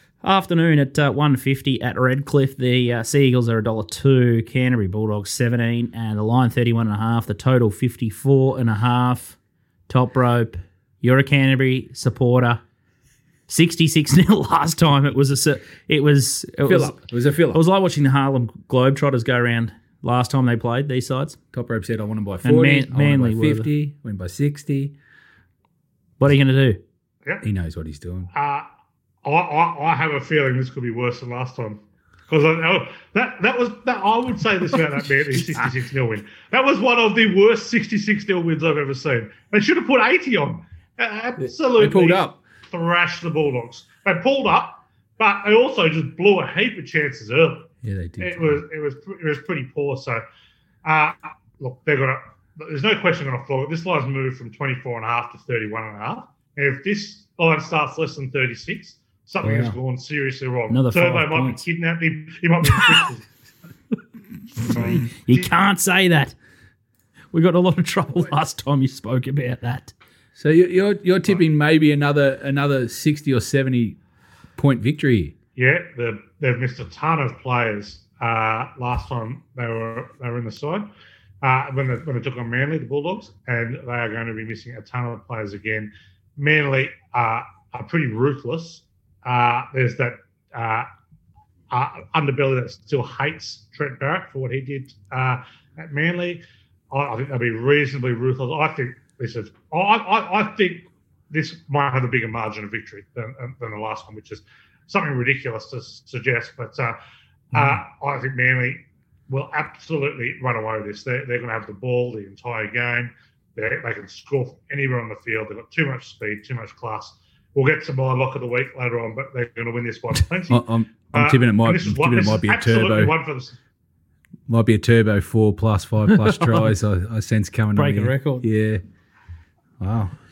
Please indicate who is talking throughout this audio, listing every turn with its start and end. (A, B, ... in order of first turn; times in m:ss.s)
0:00.2-0:09.4 A
0:09.9-0:12.6 A
0:13.5-0:17.0 A
0:16.6-0:17.6 B
0:17.5-0:21.4 A
0:21.5-0:25.0 B
0:22.4-0:23.7 A
0:26.2-0:26.8 A
0:27.4-0:28.3 B
0:28.3-0:28.7 C
0:29.2-0:50.2 C
0:41.4-0:42.4 B
0:47.8-0:48.6 B
0:50.8-1:03.3 C
0:59.4-0:59.8 B
1:00.7-1:01.6 A
1:04.6-1:06.3 A
1:04.7-1:05.0 C
1:07.3-1:09.9 A
1:10.4-1:14.0 B
1:14.6-1:15.3 B
1:15.6-1:20.9 C
1:21.4-1:30.9 C
1:31.7-1:47.0 C
1:47.5-2:03.6 C
2:00.5-2:03.1 B
2:04.5-2:08.8 B
2:06.1-2:06.7 A
2:07.7-2:08.4 A
2:09.8-2:10.1 B